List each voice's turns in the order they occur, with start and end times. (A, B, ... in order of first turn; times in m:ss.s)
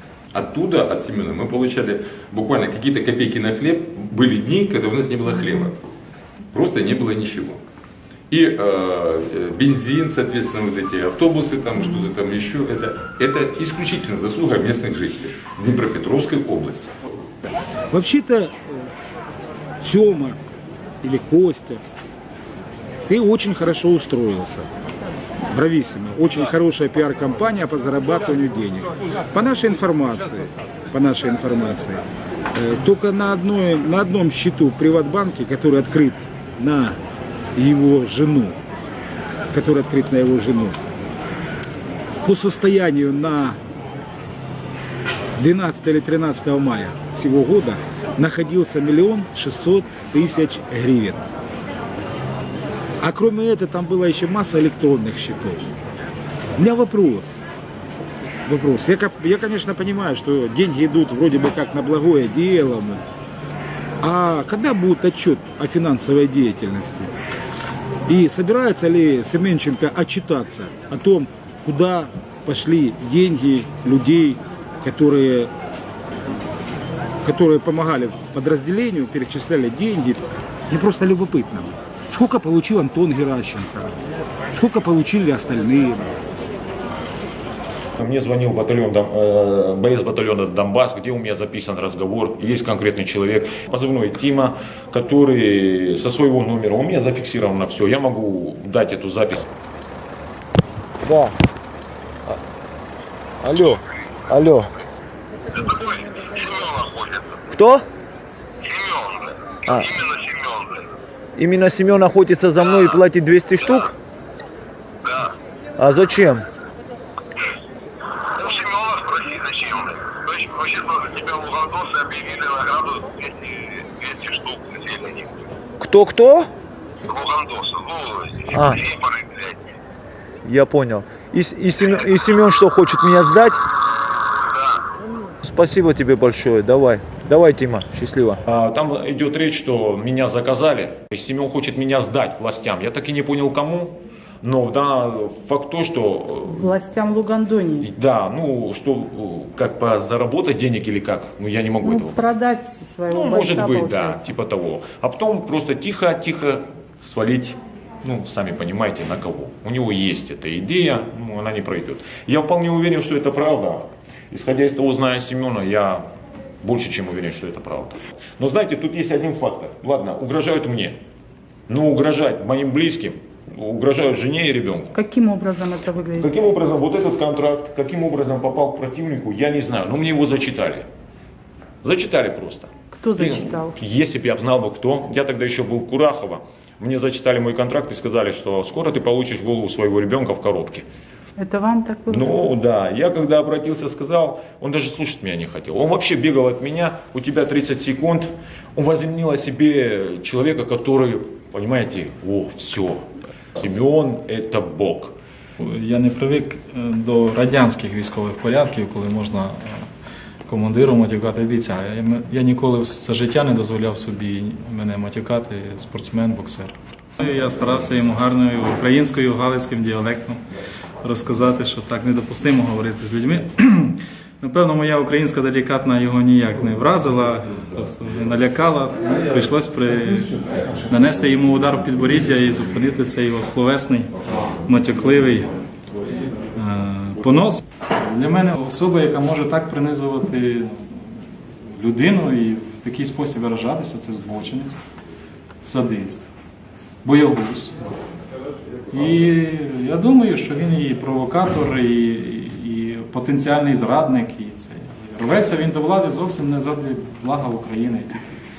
0:00.3-0:05.8 A
0:06.5-0:07.6 A
0:08.3-0:17.0 A
0:17.9-0:18.9 B
0:19.8-0:20.4 B
0:21.0-0:21.8 B
0:23.1-0:24.7 B
0:25.5-0:32.0 B
0:32.5-0:37.0 B
0:37.6-0:38.6 B
0:39.5-0:40.8 B
0:42.2-0:43.6 B
0:45.4-0:51.2 B
0:53.0-0:55.7 B
0:56.6-0:57.4 B
0:58.4-1:03.0 B
1:04.0-1:07.1 B
1:08.1-1:15.5 B
1:17.2-1:24.0 B
1:24.5-1:26.1 B
1:28.0-1:39.5 C
1:41.0-1:41.3 D
1:43.4-1:43.8 D
1:44.3-1:44.7 D
1:45.5-1:47.4 E
1:47.5-1:47.9 D
1:48.6-1:50.8 E
1:51.4-1:53.9 D
1:52.6-1:52.9 E
1:55.0-1:55.3 E
1:55.8-1:56.4 D
1:58.4-2:05.4 E
2:05.8-2:06.5 D
2:07.0-2:09.7 E
2:08.5-2:08.8 D
2:10.4-2:13.6 D
2:14.4-2:14.8 E
2:15.4-2:18.4 D
2:18.4-2:26.7 C
2:26.5-2:27.9 F
2:27.8-2:32.2 C
2:31.8-2:34.3 F
2:33.1-2:46.0 C
2:46.6-2:51.0 C
2:51.7-2:54.9 C
2:54.9-2:56.3 F
2:56.2-3:00.9 C
3:01.8-3:10.8 C
3:02.9-3:03.7 F
3:11.4-3:12.3 F
3:12.1-3:25.1 C
3:25.6-3:29.9 G
3:30.5-3:40.4 G
3:41.0-3:50.4 G
3:50.9-3:55.5 G
3:56.5-4:04.8 G
4:05.6-4:06.3 G
4:07.0-4:07.8 G
4:08.9-4:18.4 G